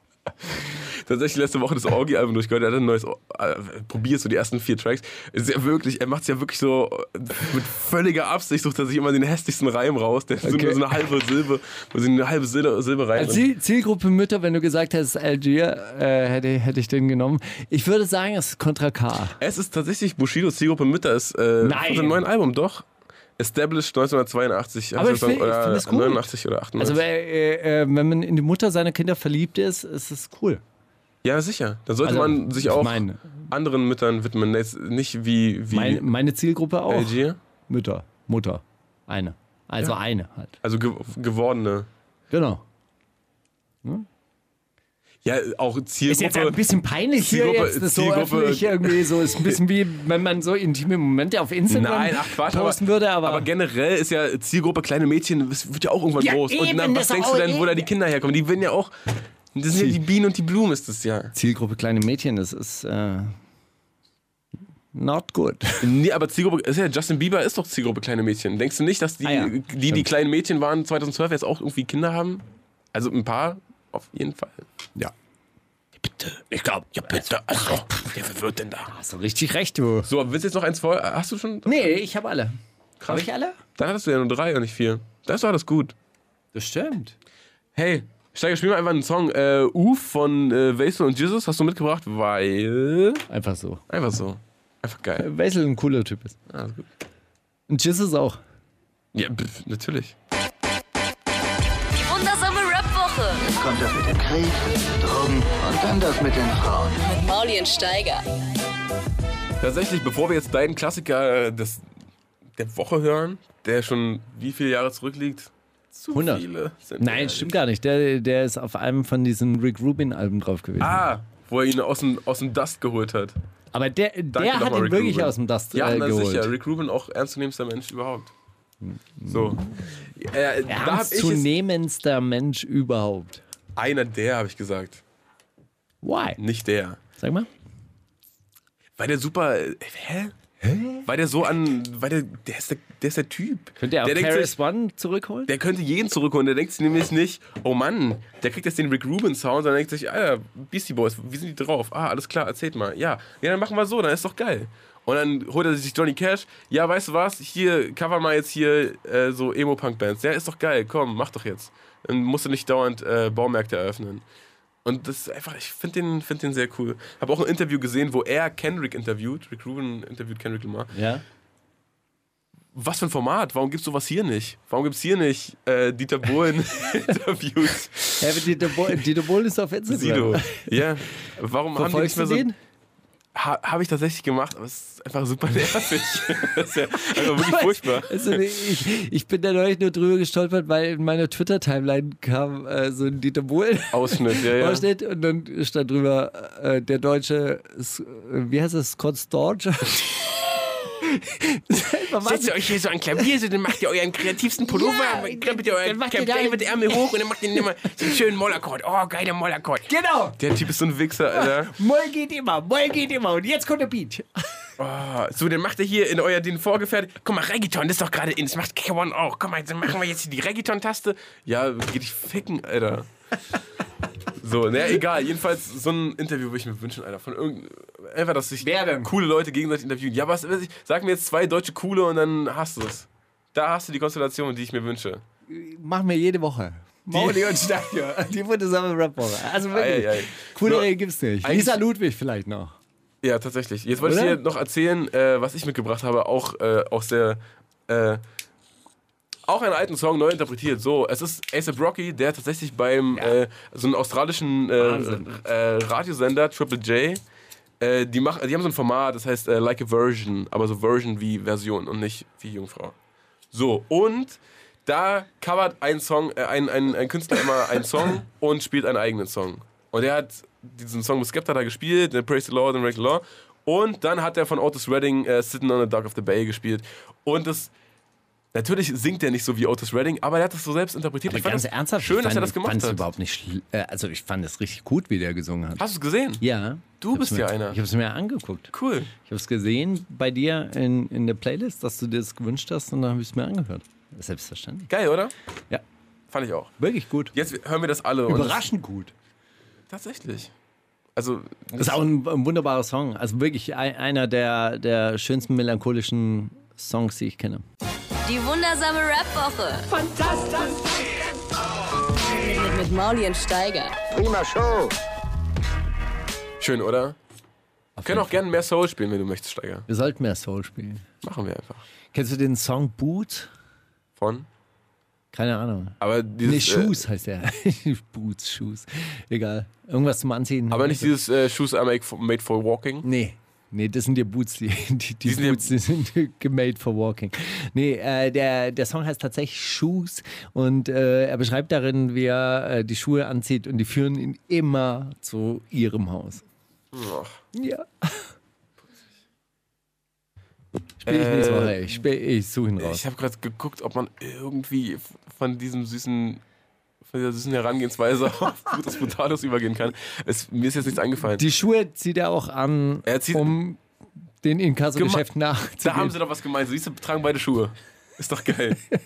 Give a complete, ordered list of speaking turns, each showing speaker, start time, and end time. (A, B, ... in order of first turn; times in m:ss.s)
0:00.6-0:13.4 A
0:10.4-0:10.8 B
0:13.2-0:19.4 B
0:19.4-0:27.0 A
0:21.6-0:22.2 B
0:25.0-0:30.6 B
0:31.2-0:36.0 A
0:32.0-0:33.4 B
0:35.7-0:40.5 B
0:36.9-0:37.4 A
0:40.6-0:41.9 A
0:42.3-0:42.6 B
0:45.2-0:46.6 A
0:46.1-0:53.5 B
0:47.2-0:49.6 A
0:51.7-1:01.3 A
0:56.2-0:57.9 B
1:01.3-1:03.3 B
1:04.9-1:05.9 B
1:05.8-1:14.6 A
1:09.2-1:10.0 B
1:16.0-1:18.1 B
1:17.0-1:18.9 A
1:18.9-1:20.1 B
1:20.0-1:21.9 A
1:21.6-1:23.6 B
1:23.0-1:25.9 A
1:26.5-1:27.2 B
1:27.7-1:33.2 A
1:33.3-1:33.8 B
1:33.9-1:35.3 A
1:35.2-1:36.4 B
1:36.5-1:36.9 A
1:37.7-1:38.4 B
1:39.1-1:40.2 A
1:41.9-1:43.5 C
1:43.5-1:47.0 D
1:47.0-1:48.2 C
1:49.6-1:51.8 A
1:52.6-1:57.6 A
1:56.1-1:56.4 B
1:57.0-2:01.0 B
2:00.8-2:03.4 A
2:03.7-2:06.5 B
2:04.3-2:08.3 A
2:08.8-2:09.9 B
2:09.3-2:11.5 A
2:10.6-2:13.4 B
2:13.8-2:15.0 A
2:16.0-2:16.4 B
2:16.4-2:17.0 A
2:17.2-2:17.5 B
2:19.0-2:20.3 A
2:20.6-2:21.0 B
2:21.0-2:24.6 A
2:23.8-2:25.5 B
2:25.5-2:44.2 A
2:44.8-2:50.9 A
2:50.9-2:51.2 B
2:52.7-2:59.0 A
2:58.2-3:00.7 B
2:59.9-3:02.5 A
3:01.7-3:02.6 B
3:03.3-3:08.5 A
3:07.0-3:22.8 B
3:13.9-3:14.8 A
3:22.2-3:31.7 A
3:24.7-3:27.1 B
3:29.9-3:30.4 B
3:31.2-3:34.7 B
3:34.8-3:43.1 A
3:44.4-3:55.2 A
3:48.6-3:49.1 B
3:55.5-4:02.7 B
3:57.1-3:57.5 A
3:59.7-4:00.9 A
4:01.4-4:01.8 A
4:03.2-4:08.2 A
4:04.0-4:04.4 B
4:09.4-4:17.2 A
4:14.8-4:15.3 B
4:17.8-4:23.0 A
4:23.5-4:37.7 A
4:38.5-4:43.0 A
4:41.3-4:45.8 B
4:45.8-4:46.4 A
4:46.4-4:54.9 B
4:47.0-4:47.8 A
4:48.7-4:49.1 A
4:54.9-4:55.3 A
4:56.3-4:56.7 A
4:56.8-4:57.3 B
4:57.3-4:58.6 A
4:58.3-4:59.1 B
4:59.9-5:00.5 A
5:01.1-5:02.0 A
5:01.8-5:07.6 B
5:08.2-5:09.9 C
5:09.9-5:10.8 B
5:12.0-5:14.0 C
5:14.1-5:14.9 D
5:16.6-5:17.2 A
5:18.0-5:18.3 B
5:18.0-5:19.8 A
5:19.9-5:21.0 B
5:21.2-5:21.8 A
5:22.1-5:23.5 B
5:24.2-5:24.5 A
5:25.3-5:31.1 B
5:26.0-5:27.0 A
5:30.7-5:33.0 A
5:33.0-5:46.4 B
5:35.2-5:35.7 A
5:46.9-5:47.4 A
5:47.5-5:48.3 B
5:51.0-5:53.0 B
5:51.0-5:52.0 A
5:52.8-5:56.4 A
5:57.0-6:01.4 A
6:01.2-6:03.8 B
6:03.0-6:03.5 A
6:04.4-6:06.1 B
6:04.9-6:05.2 A
6:05.8-6:08.8 A